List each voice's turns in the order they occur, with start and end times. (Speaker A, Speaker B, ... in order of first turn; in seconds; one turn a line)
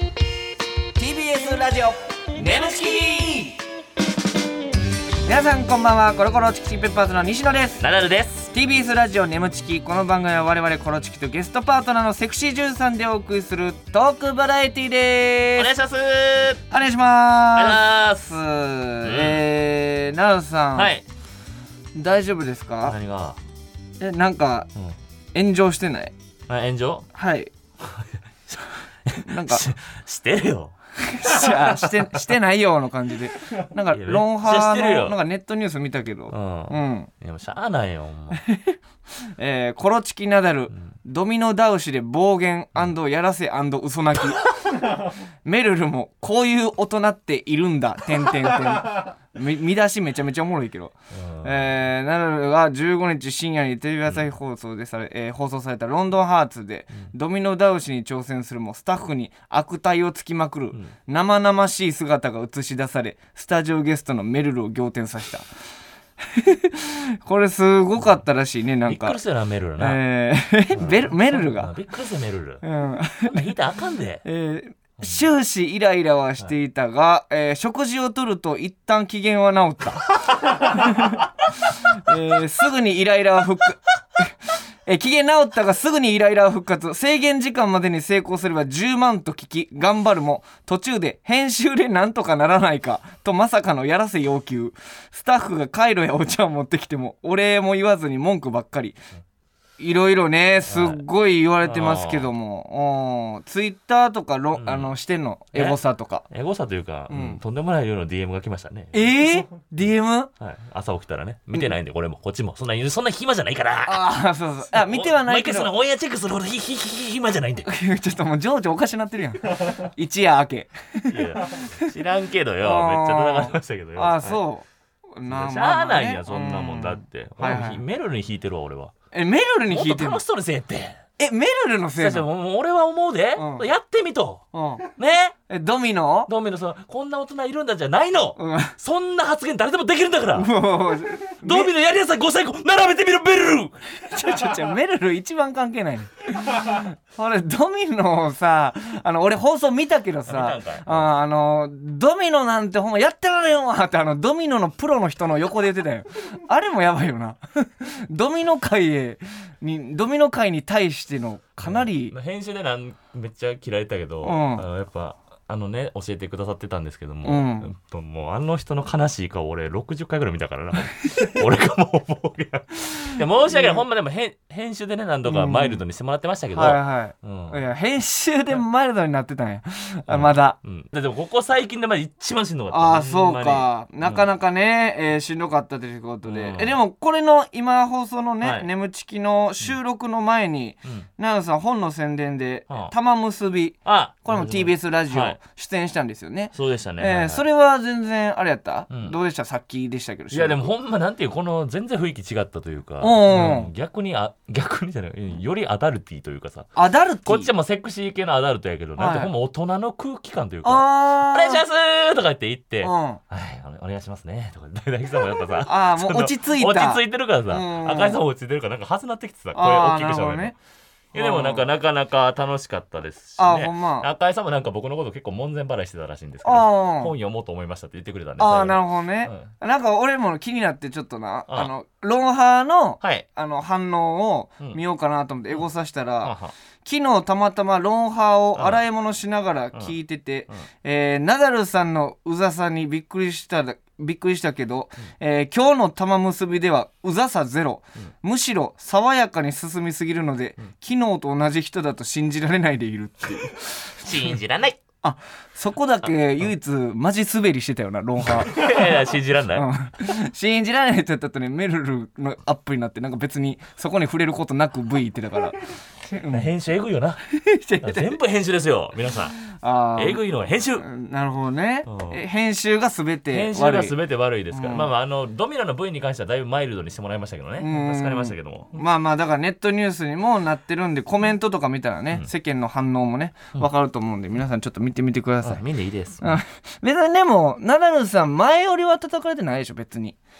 Speaker A: 0.9-3.6
Speaker A: 5.2-7.8
Speaker B: 7.8-8.5
Speaker A: 8.5-15.7
Speaker B: 15.6-16.6
Speaker A: 16.7-20.9
Speaker B: 17.5-18.3
Speaker B: 19.0-19.4
Speaker B: 20.7-21.0
Speaker A: 21.9-23.0
Speaker B: 22.9-23.4
Speaker A: 24.0-24.7
Speaker A: 25.3-26.1
Speaker B: 26.5-27.1
Speaker A: 27.1-27.5
Speaker B: 27.8-32.0
Speaker A: 29.1-29.6
Speaker A: 31.0-37.1
Speaker B: 33.9-35.2
Speaker B: 36.3-38.4
Speaker A: 39.4-44.5
Speaker A: 45.4-65.5
Speaker B: 51.1-51.6
Speaker A: 66.3-69.2
Speaker B: 68.8-70.0
Speaker A: 69.8-71.7
Speaker B: 70.7-72.6
Speaker A: 72.6-73.5
Speaker B: 73.3-74.2
Speaker A: 74.2-84.3
Speaker B: 75.0-75.2
Speaker A: 84.8-99.0
Speaker A: 99.8-106.3
Speaker B: 100.7-101.0
Speaker B: 101.6-102.3
Speaker B: 104.5-104.9
Speaker B: 106.3-109.2
Speaker A: 107.1-107.4
Speaker A: 108.9-110.3
Speaker B: 110.4-114.0
Speaker A: 113.8-115.7
Speaker B: 114.7-117.7
Speaker A: 117.7-121.9
Speaker B: 121.1-124.4
Speaker A: 122.6-127.8
Speaker B: 125.2-128.9
Speaker A: 129.1-130.2
Speaker B: 129.7-131.0
Speaker A: 131.2-132.2
Speaker B: 132.0-134.4
Speaker A: 133.3-133.7
Speaker A: 134.5-134.8
Speaker B: 135.0-135.3
Speaker A: 135.5-136.3
Speaker B: 136.3-140.5
Speaker A: 138.4-138.7
Speaker A: 140.3-141.7
Speaker B: 141.3-143.7
Speaker A: 144.1-162.1
Speaker B: 150.3-151.1
Speaker B: 161.6-177.6
Speaker A: 164.2-164.6
Speaker A: 167.2-167.7
Speaker A: 173.0-173.8
Speaker A: 175.2-175.8
Speaker A: 176.5-180.6
Speaker B: 180.1-184.2
Speaker A: 182.7-200.7
Speaker B: 186.2-186.8
Speaker B: 188.4-188.7
Speaker B: 192.7-192.9
Speaker B: 193.8-195.4
Speaker B: 196.5-197.4
Speaker B: 198.9-199.2
Speaker B: 200.3-206.7
Speaker A: 203.0-203.7
Speaker A: 206.7-207.5
Speaker B: 207.2-220.5
Speaker A: 209.0-209.3
Speaker A: 210.6-211.6
Speaker A: 212.8-213.2
Speaker A: 215.6-218.2
Speaker A: 219.5-220.5
Speaker A: 221.1-221.7
Speaker B: 221.1-229.5
Speaker A: 223.4-224.1
Speaker A: 226.4-227.1
Speaker A: 228.4-254.3
Speaker B: 233.0-233.2
Speaker B: 236.2-236.5
Speaker B: 238.6-238.8
Speaker B: 254.0-254.8
Speaker A: 255.0-258.9
Speaker B: 258.4-259.7
Speaker A: 259.5-266.5
Speaker B: 266.3-267.2
Speaker A: 267.5-268.2
Speaker B: 267.8-270.9
Speaker A: 269.6-270.2
Speaker A: 270.8-273.9
Speaker B: 271.9-272.2
Speaker B: 273.3-278.8
Speaker A: 274.5-274.9
Speaker A: 277.6-285.6
Speaker B: 285.4-286.3
Speaker A: 286.2-290.2